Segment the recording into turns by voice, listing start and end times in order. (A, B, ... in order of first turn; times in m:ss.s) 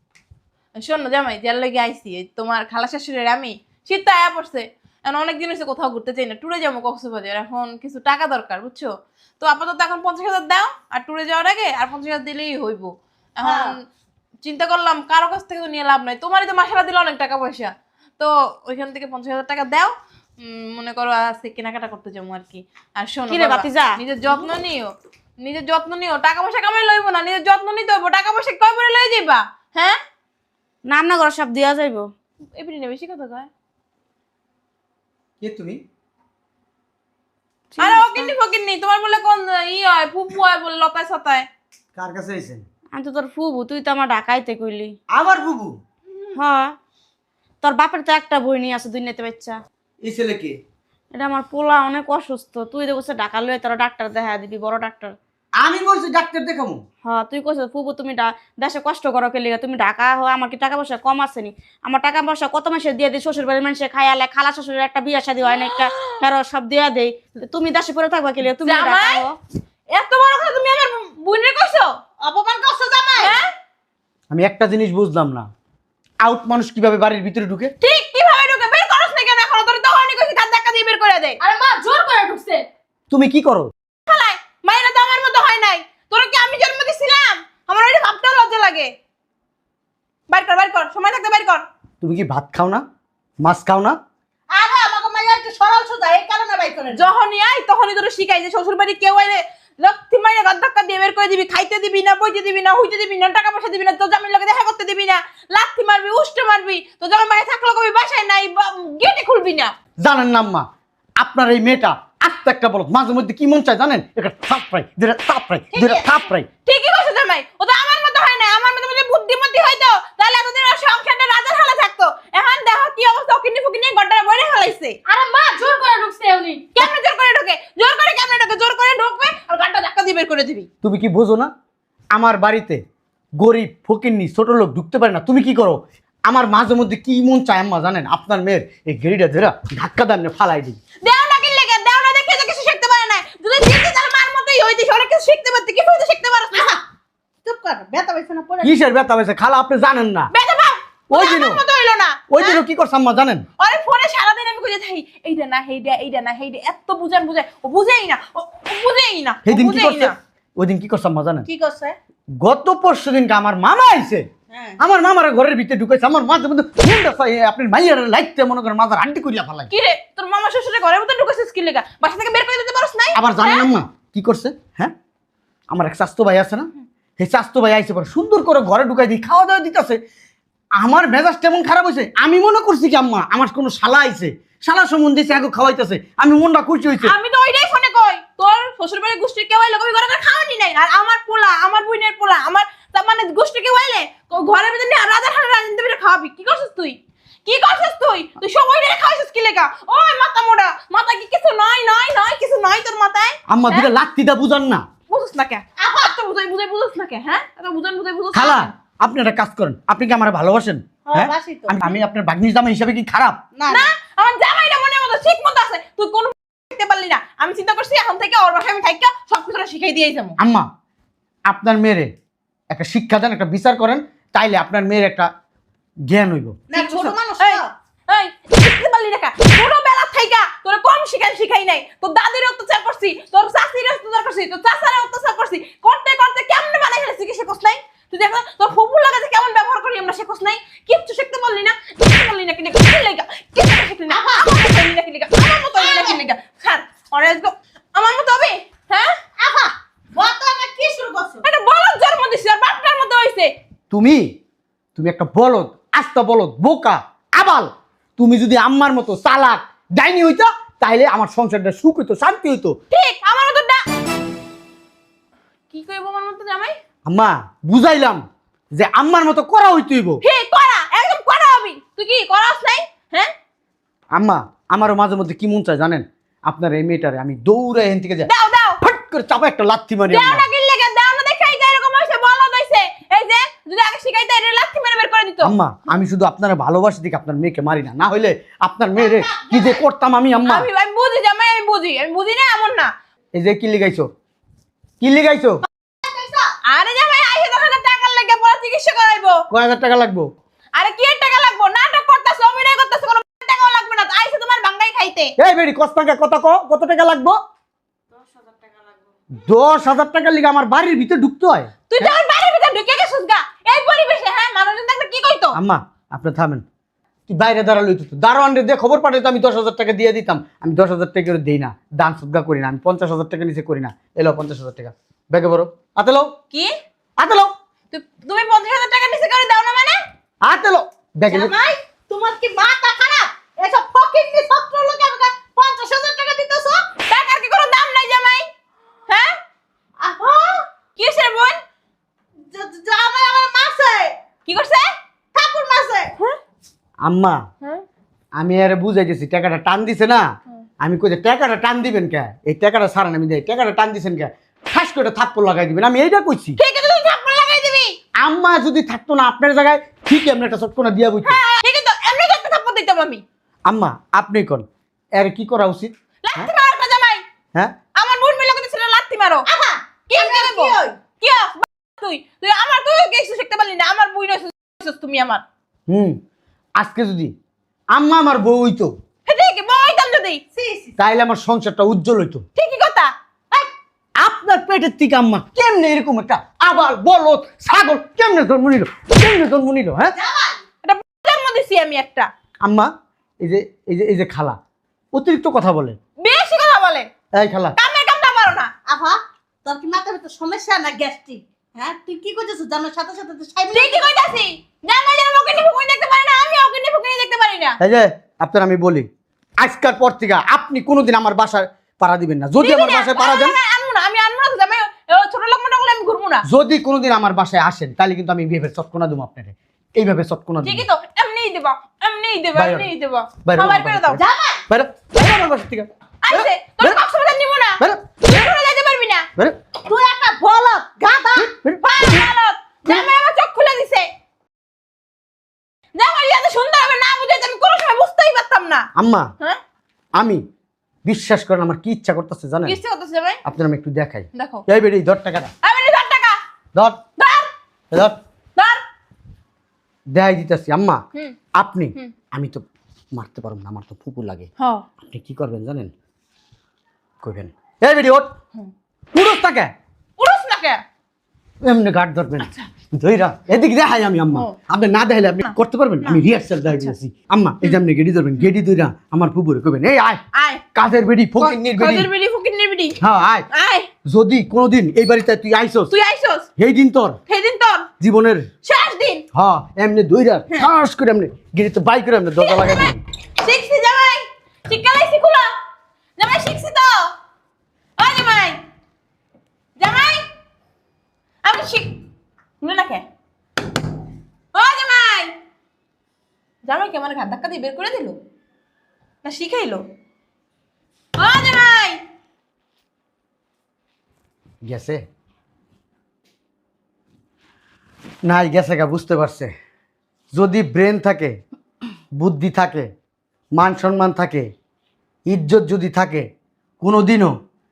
0:00.8-0:13.8 A
0:13.4-0:13.8 B
0:14.4-0:30.0 A
0:23.3-0:24.4 C
0:30.9-0:32.1 C
0:32.6-0:33.5 A
0:35.4-0:35.8 D
0:37.8-0:38.3 C
0:37.8-0:41.5 A
0:42.0-0:42.6 D
0:43.0-0:44.9 C
0:45.1-0:45.7 D
0:46.4-0:46.7 C
0:47.6-0:49.6 C
0:50.0-0:50.6 D
0:51.2-0:55.1 C
0:55.6-0:56.8 D
0:57.0-1:09.3 C
1:05.5-1:06.2 A
1:08.6-1:09.2 A
1:09.9-1:11.9 A
1:12.2-1:13.4 B
1:13.2-1:13.5 A
1:14.3-1:15.5 D
1:16.2-1:17.7 D
1:17.8-1:21.4 A
1:21.4-1:22.6 E
1:23.1-1:23.7 D
1:24.1-1:28.9 A
1:30.3-1:31.7 A
1:32.0-1:32.8 D
1:33.4-1:34.0 D
1:34.5-1:37.1 B
1:36.9-1:49.7 A
1:50.0-1:50.7 D
1:51.2-1:56.5 D
1:56.6-2:05.0 A
2:05.1-2:06.9 E
2:06.7-2:10.7 A
2:10.8-2:11.5 D
2:12.2-2:12.8 D
2:13.4-2:20.8 D
2:21.0-2:26.8 A
2:26.5-2:26.8 B
2:27.4-2:28.8 B
2:28.6-2:30.3 D
2:30.3-2:32.6 A
2:31.1-2:31.6 D
2:32.3-2:33.4 D
2:33.6-2:40.2 A
2:39.4-2:41.5 D
2:41.4-2:42.0 B
2:42.4-2:44.3 D
2:44.5-2:44.8 B
2:44.8-2:49.7 D
2:49.7-2:53.7 A
2:53.2-2:54.9 D
2:55.7-3:00.0 D
3:00.8-3:07.1 D
3:07.0-3:23.9 A
3:23.5-3:24.9 D
3:25.1-3:28.7 A
3:28.3-3:33.4 D
3:31.0-3:31.8 B
3:33.6-3:33.9 B
3:33.7-3:40.4 A
3:40.4-3:40.7 D
3:41.5-3:42.1 D
3:42.7-3:45.3 D
3:46.1-3:46.6 D
3:46.7-3:47.7 B
3:46.7-4:09.2 A
4:04.1-4:04.6 B
4:05.8-4:06.2 B
4:09.4-4:11.4 B
4:11.4-4:13.5 A
4:13.9-4:14.3 D
4:15.0-4:22.8 D
4:22.9-4:23.8 A
4:25.7-4:26.8 A
4:27.1-4:30.2 D
4:30.2-4:33.3 A
4:34.2-4:38.3 D
4:38.2-4:38.8 A
4:38.8-4:40.5 D
4:40.1-4:45.5 A
4:45.4-4:50.7 D
4:49.0-4:49.6 B
4:50.5-4:52.9 A
4:53.4-4:54.1 D
4:55.0-4:55.6 D
4:56.0-4:56.5 B
4:56.7-4:59.4 A
4:59.5-5:00.3 D
5:00.8-5:05.3 A
5:05.4-5:07.4 D
5:08.1-5:09.1 C
5:09.3-5:12.2 D
5:11.9-5:15.6 A
5:15.6-5:16.6 D
5:17.3-5:26.3 D
5:27.2-5:27.5 D
5:27.9-5:30.0 A
5:30.4-5:31.5 D
5:31.3-5:36.9 B
5:37.1-5:38.5 A
5:40.0-5:40.7 B
5:41.0-5:41.6 A
5:42.5-5:44.1 B
5:44.4-5:44.9 A
5:45.3-5:46.1 B
5:47.0-5:47.4 D
5:48.4-5:50.2 D
5:50.8-5:56.6 D
5:56.6-5:58.0 A
5:58.2-6:01.4 D
6:01.2-6:03.2 A
6:03.7-6:06.5 D
6:06.2-6:07.2 A
6:08.0-6:09.5 A
6:09.5-6:11.0 B
6:10.1-6:15.4 A
6:15.9-6:16.2 D
6:16.8-6:17.3 D
6:17.9-6:18.9 D
6:19.3-6:20.4 A
6:20.5-6:21.0 B
6:21.0-6:22.4 D
6:22.6-6:23.1 A
6:24.2-6:30.1 D
6:30.1-6:30.6 B
6:30.8-6:32.3 A
6:32.6-6:32.9 D
6:33.4-6:34.6 D
6:35.1-6:36.0 D
6:36.2-6:37.1 A
6:37.3-6:37.8 D
6:37.8-6:38.7 A
6:38.9-6:44.1 B
6:43.7-6:47.8 A
6:47.8-6:49.1 D
6:49.6-6:53.6 D
6:52.6-6:56.4 A
6:56.5-7:00.9 D
7:00.6-7:04.2 A
7:02.6-7:02.9 D
7:03.4-7:07.0 D
7:04.1-7:04.6 B
7:06.2-7:09.3 A
7:09.8-7:11.5 B
7:11.4-7:12.3 D
7:11.8-7:14.1 A
7:16.0-7:18.9 A
7:19.0-7:19.3 D
7:20.2-7:20.4 D
7:21.0-7:22.8 D
7:22.6-7:23.4 A
7:23.4-7:25.5 D
7:24.3-7:24.6 A
7:25.6-7:26.4 A
7:27.2-7:27.5 A
7:28.6-7:28.8 A
7:30.1-7:31.0 D
7:31.6-7:34.5 D
7:34.6-7:34.9 A
7:35.0-7:35.9 D
7:37.2-7:38.3 D
7:39.1-7:39.7 D
7:40.2-7:40.8 A
7:41.6-7:50.2 D
7:45.4-7:46.9 A
7:50.3-7:50.6 A
7:50.8-7:52.1 D
7:51.4-7:53.0 A
7:53.0-7:53.5 D
7:53.5-7:53.9 A
7:54.1-7:55.9 D
7:55.9-7:56.5 A
7:56.6-7:57.2 D
7:57.3-7:57.9 A
7:58.0-7:58.5 D
7:58.6-7:59.2 A
7:59.3-8:03.0 D
8:02.4-8:02.9 A
8:03.4-8:05.5 A
8:06.2-8:07.1 A
8:08.0-8:08.6 A
8:09.8-8:10.3 A
8:11.4-8:12.0 A
8:12.6-8:13.0 A
8:14.5-8:15.4 A
8:16.6-8:18.2 A
8:19.2-8:19.8 A
8:21.2-8:22.0 A
8:24.6-8:25.0 D
8:28.2-8:29.5 D
8:30.3-8:31.4 D
8:32.2-8:32.9 D
8:33.6-8:34.5 D
8:35.3-8:36.3 D
8:36.8-8:37.4 D